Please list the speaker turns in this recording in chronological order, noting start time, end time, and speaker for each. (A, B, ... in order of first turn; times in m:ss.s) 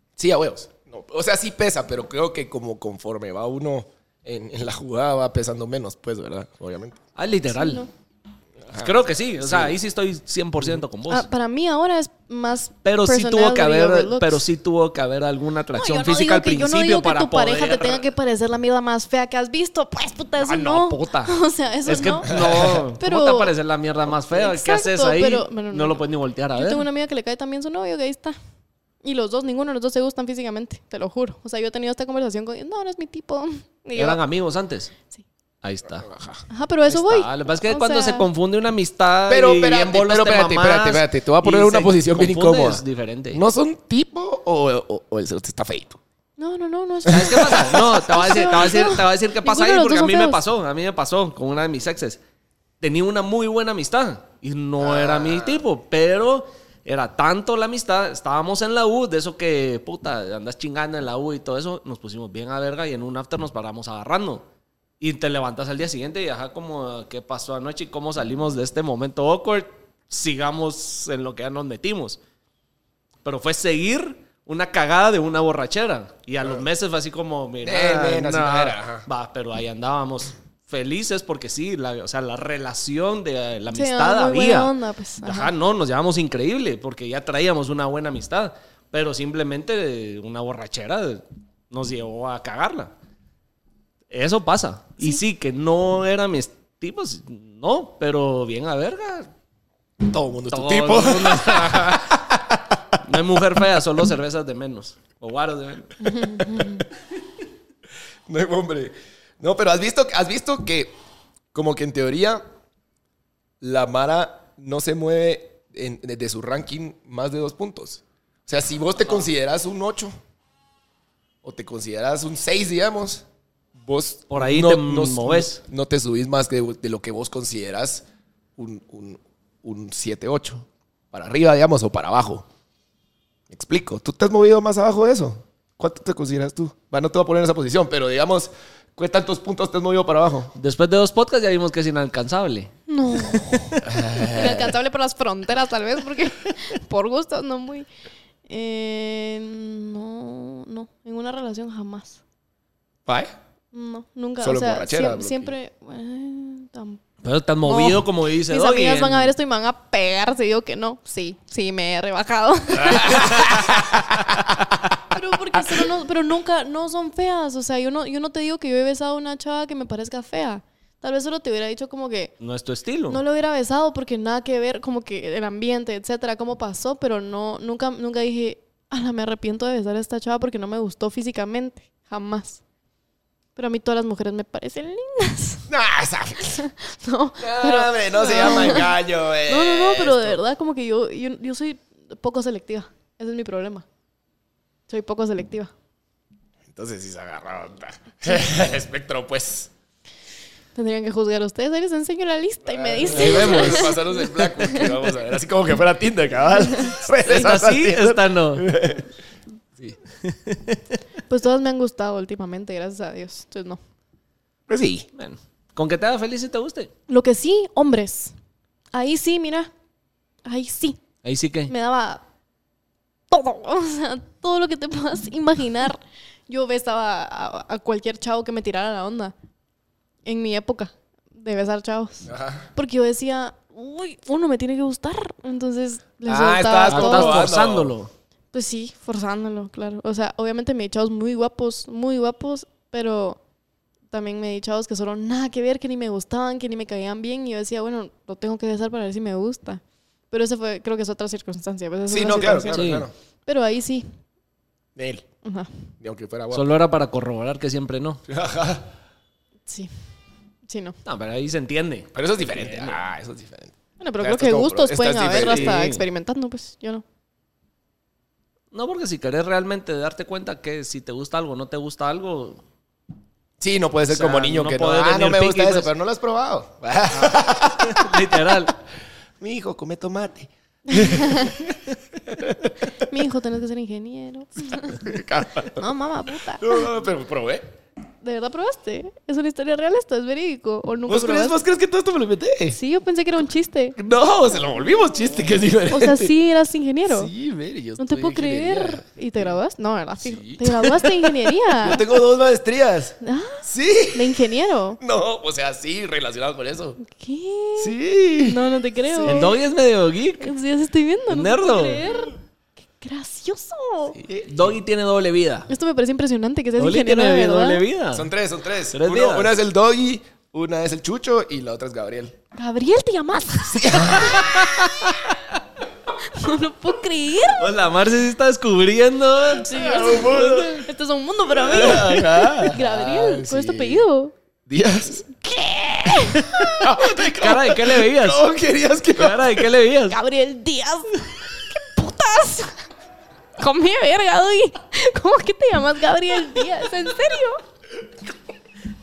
0:00.2-0:07.0 A
0:07.2-0:07.8 B
0:07.5-0:07.9 C
0:08.6-0:09.8 A
0:08.7-0:11.2 B
0:11.1-0:14.4 C
0:12.8-0:18.1 B
0:15.7-0:23.5 C
0:20.4-0:26.8 B
0:22.3-0:22.8 A
0:24.0-0:28.4 C
0:29.0-0:34.2 C
0:33.9-0:34.9 B
0:35.6-0:36.1 B
0:35.9-0:36.4 A
0:36.5-0:38.3 C
0:36.9-0:43.4 B
0:39.3-0:46.0 A
0:46.4-0:50.4 C
0:47.0-0:47.8 A
0:47.0-0:52.2 B
0:52.8-1:04.4 B
0:54.8-0:55.6 A
1:05.0-1:12.2 B
1:13.2-1:24.7 B
1:17.6-1:19.1 A
1:23.7-1:25.5 C
1:25.2-1:32.9 B
1:34.1-1:39.3 B
1:40.0-1:43.0 A
1:40.5-1:42.1 B
1:43.0-1:46.2 B
1:46.0-1:46.8 C
1:48.2-1:50.9 A
1:51.5-1:52.4 A
1:53.6-2:00.2 A
2:01.4-2:03.2 A
2:03.8-2:08.0 A
2:04.3-2:05.6 B
2:08.6-2:12.4 A
2:13.5-2:20.5 A
2:20.5-2:22.7 B
2:22.9-2:27.9 C
2:23.8-2:24.8 A
2:28.5-2:32.2 C
2:33.0-2:33.3 A
2:33.7-2:37.0 C
2:34.4-2:35.5 A
2:37.2-2:39.3 B
2:37.6-2:43.5 C
2:42.8-2:44.6 A
2:43.0-2:43.5 B
2:45.1-2:52.4 C
2:52.4-2:53.2 B
2:53.1-3:02.6 C
3:03.6-3:05.7 C
3:05.7-3:06.6 A
3:06.4-3:08.9 C
3:07.4-3:10.4 A
3:09.4-3:13.8 C
3:14.9-3:15.7 C
3:16.7-3:19.7 A
3:20.7-3:24.2 C
3:22.6-3:29.1 A
3:23.0-3:24.0 B
3:27.2-3:28.7 B
3:30.2-3:31.0 B
3:31.3-3:33.8 C
3:34.7-3:35.1 A
3:35.1-3:36.9 B
3:37.1-3:38.3 C
3:38.9-3:39.7 C
3:40.4-3:41.0 C
3:41.2-3:41.7 B
3:41.7-3:42.2 C
3:43.3-3:49.3 C
3:50.2-3:57.4 C
3:52.2-3:52.7 A
3:56.3-3:57.9 A
3:56.9-3:58.1 B
3:58.5-4:03.4 C
4:04.1-4:12.8 C
4:12.1-4:13.1 A
4:12.7-4:13.1 B
4:13.4-4:14.1 C
4:15.0-4:15.2 A
4:15.4-4:15.9 C
4:16.0-4:16.7 A
4:16.5-4:18.2 B
4:18.3-4:18.9 A
4:19.7-4:19.9 C
4:20.7-4:21.0 C
4:21.0-4:23.0 B
4:22.1-4:25.8 A
4:24.0-4:27.0 C
4:25.4-4:26.0 B
4:28.7-4:32.6 B
4:33.6-4:38.5 A
4:34.1-4:35.9 B
4:37.1-4:38.7 B
4:39.4-4:42.9 A
4:40.9-4:41.5 C
4:43.0-4:45.0 C
4:44.9-4:45.9 A
4:45.8-4:46.8 C
4:46.6-4:47.7 A
4:48.2-4:51.6 C
4:51.1-4:52.8 A
4:52.7-4:54.0 C
4:54.0-4:56.3 A
4:55.9-4:57.3 C
4:57.1-4:59.5 A
4:58.0-5:02.0 C
5:00.2-5:04.4 A
5:03.2-5:05.0 C
5:05.0-5:07.0 A
5:07.0-5:09.6 C
5:07.8-5:09.5 A
5:09.3-5:10.5 B
5:10.4-5:12.4 C
5:11.3-5:12.0 B
5:13.0-5:14.2 C
5:14.1-5:14.7 A
5:14.5-5:15.7 B
5:15.7-5:17.8 C
5:16.8-5:18.3 B
5:18.1-5:22.4 A
5:18.9-5:19.5 B
5:22.5-5:24.5 C
5:23.7-5:25.1 A
5:24.2-5:25.4 B
5:26.3-5:27.6 C
5:27.6-5:29.7 B
5:29.6-5:34.3 C
5:29.7-5:30.8 A
5:31.5-5:34.0 A
5:34.6-5:35.2 A
5:35.3-5:36.8 C
5:36.4-5:38.4 B
5:36.8-5:39.7 A
5:39.1-5:40.2 B
5:40.1-5:42.8 C
5:43.6-5:47.6 C